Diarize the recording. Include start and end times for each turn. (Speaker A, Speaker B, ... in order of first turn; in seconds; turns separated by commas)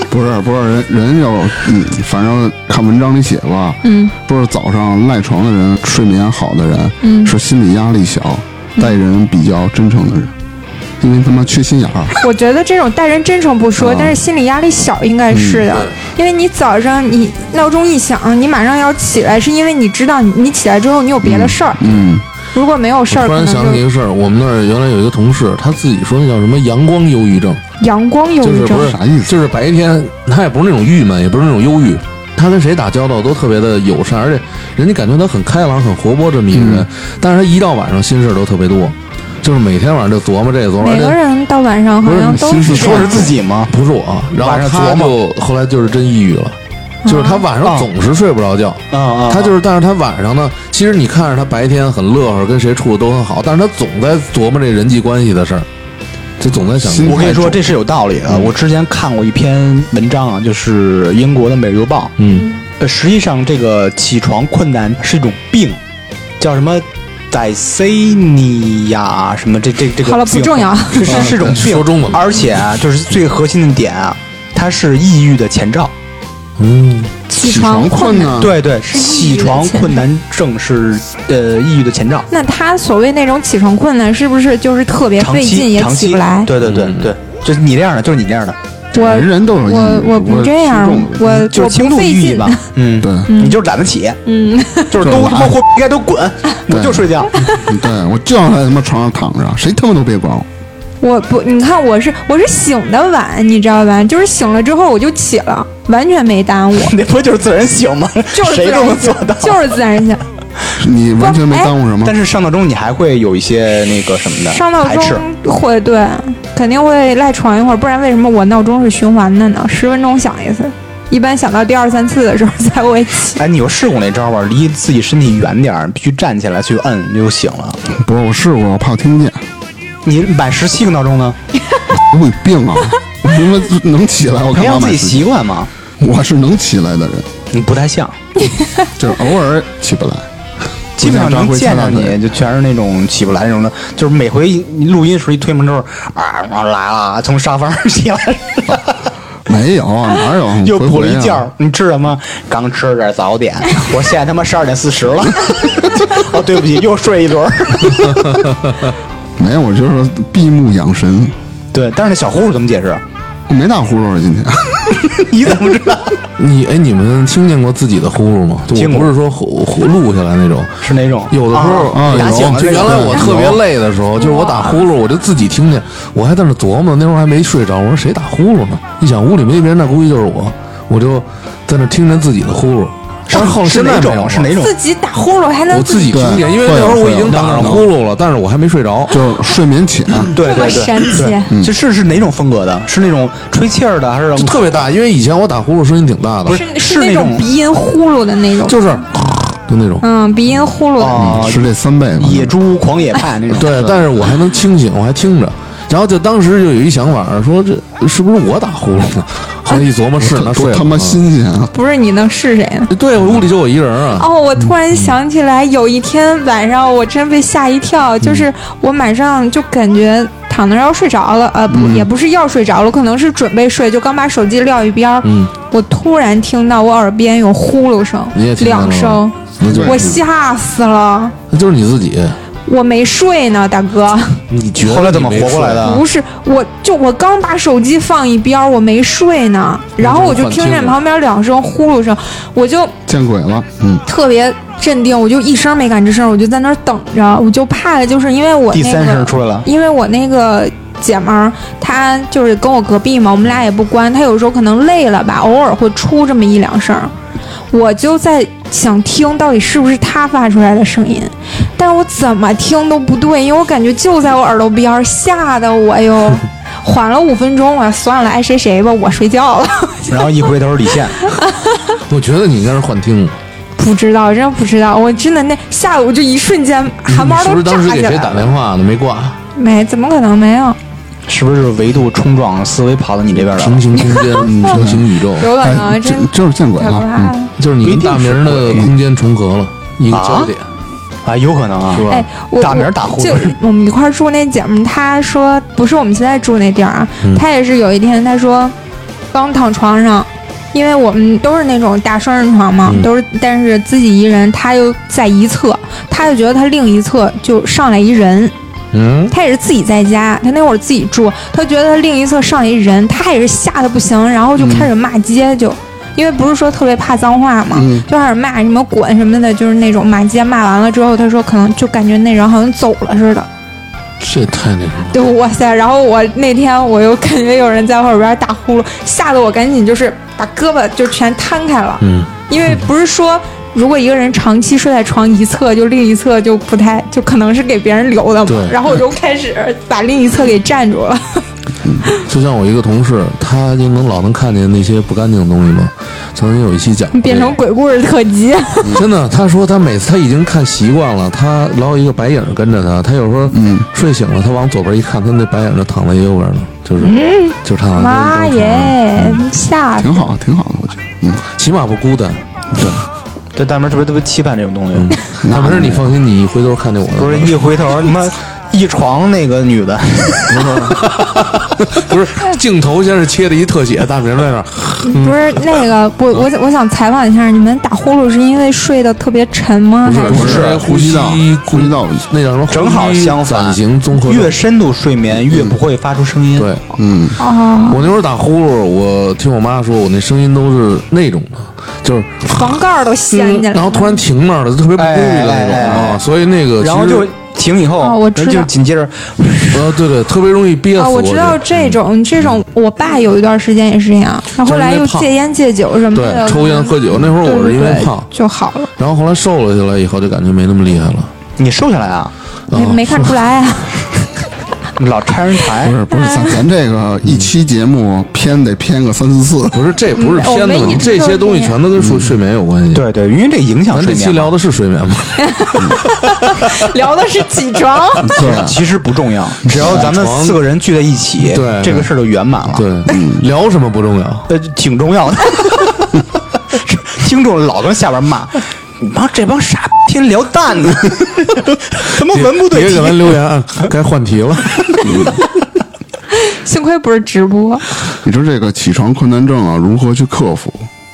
Speaker A: 0.1-10.3, Speaker B: 3.8-4.1, Speaker B: 7.0-7.3, Speaker A: 11.0-12.2, Speaker B: 12.2-21.9, Speaker A: 13.8-14.2, Speaker A: 15.3-15.7, Speaker A: 21.2-22.2, Speaker B: 22.5-23.8, Speaker C: 23.1-27.6, Speaker B: 27.8-28.9, Speaker C: 28.4-41.2, Speaker A: 28.7-29.3, Speaker A: 36.5-36.9, Speaker B: 40.8-43.3, Speaker C: 42.0-55.7, Speaker A: 42.3-43.3, Speaker D: 42.7-43.7, Speaker D: 44.4-45.1, Speaker B: 47.0-47.4, Speaker D: 47.6-47.9, Speaker D: 48.9-49.5, Speaker C: 56.4-57.5, Speaker A: 56.5-57.6, Speaker D: 57.0-62.1, Speaker C: 58.3-58.5, Speaker C: 62.2-62.5, Speaker D: 62.8-65.8, Speaker D: 66.4-75.9, Speaker B: 70.0-71.3, Speaker C: 71.1-72.3, Speaker C: 76.6-77.1, Speaker B: 77.3-80.0, Speaker A: 77.4-78.6, Speaker D: 78.4-82.3, Speaker B: 82.3-86.5, Speaker D: 85.2-88.6, Speaker C: 86.6-87.1, Speaker B: 88.9-92.6, Speaker A: 89.0-91.5, Speaker D: 91.4-94.2, Speaker A: 93.0-93.3, Speaker B: 93.3-93.6, Speaker B: 94.2-95.0, Speaker D: 94.9-97.4, Speaker A: 95.0-95.6, Speaker A: 96.7-100.5, Speaker B: 101.0-106.9, Speaker D: 106.8-109.7, Speaker B: 108.3-110.2, Speaker A: 110.8-112.2, Speaker B: 111.2-111.7, Speaker D: 112.0-115.2, Speaker B: 114.5-123.4, Speaker D: 123.4-127.8, Speaker A: 127.9-129.4, Speaker D: 130.0-131.4, Speaker A: 131.9-135.3, Speaker D: 134.5-135.7, Speaker A: 136.0-137.3, Speaker D: 137.5-138.2, Speaker B: 138.4-138.9, Speaker A: 139.0-140.3, Speaker A: 141.0-142.2, Speaker D: 141.0-149.0, Speaker A: 149.4-151.5, Speaker D: 150.6-158.4, Speaker C: 158.3-158.8, Speaker A: 159.4-161.3, Speaker D: 161.7-163.0, Speaker A: 163.5-165.1, Speaker D: 165.1-166.2, Speaker C: 166.4-184.6, Speaker D: 168.7-169.1, Speaker D: 170.8-173.6, Speaker A: 171.9-173.6, Speaker B: 174.2-174.9, Speaker D: 183.3-184.7, Speaker B: 184.6-186.5, Speaker C: 185.7-189.2, Speaker A: 186.1-187.9, Speaker D: 187.3-187.8, Speaker A: 189.1-190.3, Speaker D: 190.2-194.8, Speaker B: 190.4-191.5, Speaker A: 191.5-191.7, Speaker C: 194.4-196.6, Speaker D: 196.4-197.5, Speaker B: 196.5-198.9, Speaker C: 198.7-200.1, Speaker B: 200.0-201.4, Speaker D: 201.0-203.7, Speaker A: 201.1-202.5, Speaker A: 203.5-204.0, Speaker C: 203.5-211.2, Speaker A: 210.2-211.7, Speaker B: 211.7-212.9, Speaker C: 212.9-214.3, Speaker B: 214.2-231.3, Speaker A: 221.7-222.1, Speaker C: 225.2-225.5, Speaker C: 228.3-230.2, Speaker A: 229.7-230.1, Speaker C: 231.5-232.4, Speaker B: 232.7-234.4, Speaker C: 234.5-235.9, Speaker D: 234.8-236.0, Speaker B: 235.8-242.9, Speaker C: 240.0-241.0, Speaker A: 243.1-244.0, Speaker B: 244.1-257.1, Speaker D: 248.7-249.7, Speaker B: 257.7-270.2, Speaker D: 270.1-271.2, Speaker B: 271.2-271.9, Speaker C: 272.1-273.4, Speaker B: 273.8-278.5, Speaker C: 277.1-279.4, Speaker B: 279.5-280.8, Speaker D: 281.3-284.0, Speaker C: 283.3-285.5, Speaker B: 284.0-284.8, Speaker A: 284.4-287.3, Speaker B: 285.4-287.5, Speaker C: 287.6-290.6, Speaker D: 287.8-288.9, Speaker D: 290.1-290.5, Speaker D: 291.2-292.1, Speaker C: 291.9-292.2, Speaker B: 292.1-298.7, Speaker D: 292.6-293.6, Speaker B: 299.3-308.5, Speaker C: 308.9-309.3, Speaker B: 309.3-323.5, Speaker A: 314.6-314.9, Speaker A: 317.7-318.1, Speaker C: 324.2-325.2, Speaker B: 325.1-341.4, Speaker C: 332.0-332.8, Speaker C: 338.5-338.8, Speaker C: 342.2-347.6, Speaker B: 347.1-349.0, Speaker C: 348.9-359.4, Speaker A: 353.5-353.9, Speaker B: 357.0-360.2, Speaker A: 360.0-361.4, Speaker C: 361.6-362.9, Speaker D: 363.6-365.1, Speaker C: 364.9-367.6, Speaker A: 365.4-366.2, Speaker D: 367.1-370.8, Speaker A: 370.5-371.0, Speaker C: 370.9-375.8, Speaker B: 375.1-380.5, Speaker C: 380.0-384.6, Speaker A: 380.3-382.2, Speaker D: 380.3-380.8, Speaker D: 382.7-386.7, Speaker C: 386.6-386.8, Speaker A: 386.9-387.4, Speaker B: 387.4-388.0, Speaker C: 387.9-397.3, Speaker B: 392.4-394.2, Speaker D: 395.0-396.2, Speaker D: 396.8-399.9, Speaker B: 398.0-398.7, Speaker C: 399.7-402.0, Speaker B: 400.9-408.9, Speaker C: 404.6-405.3, Speaker C: 406.1-408.3, Speaker C: 409.0-411.3, Speaker D: 411.6-412.3, Speaker C: 412.7-413.3, Speaker B: 412.7-414.3, Speaker D: 415.0-416.0, Speaker A: 415.8-419.8, Speaker B: 416.1-416.6, Speaker C: 417.2-417.5, Speaker C: 419.7-423.0, Speaker B: 420.2-421.8, Speaker A: 421.9-422.3, Speaker D: 422.9-424.5, Speaker C: 423.9-425.4, Speaker B: 425.4-428.4, Speaker A: 428.2-428.8, Speaker D: 428.3-432.8, Speaker C: 429.7-430.6, Speaker A: 429.7-430.0, Speaker C: 431.4-432.1, Speaker C: 432.7-434.5, Speaker A: 433.1-433.4, Speaker D: 434.5-443.9, Speaker C: 442.3-445.4, Speaker B: 446.3-447.9, Speaker A: 448.2-450.9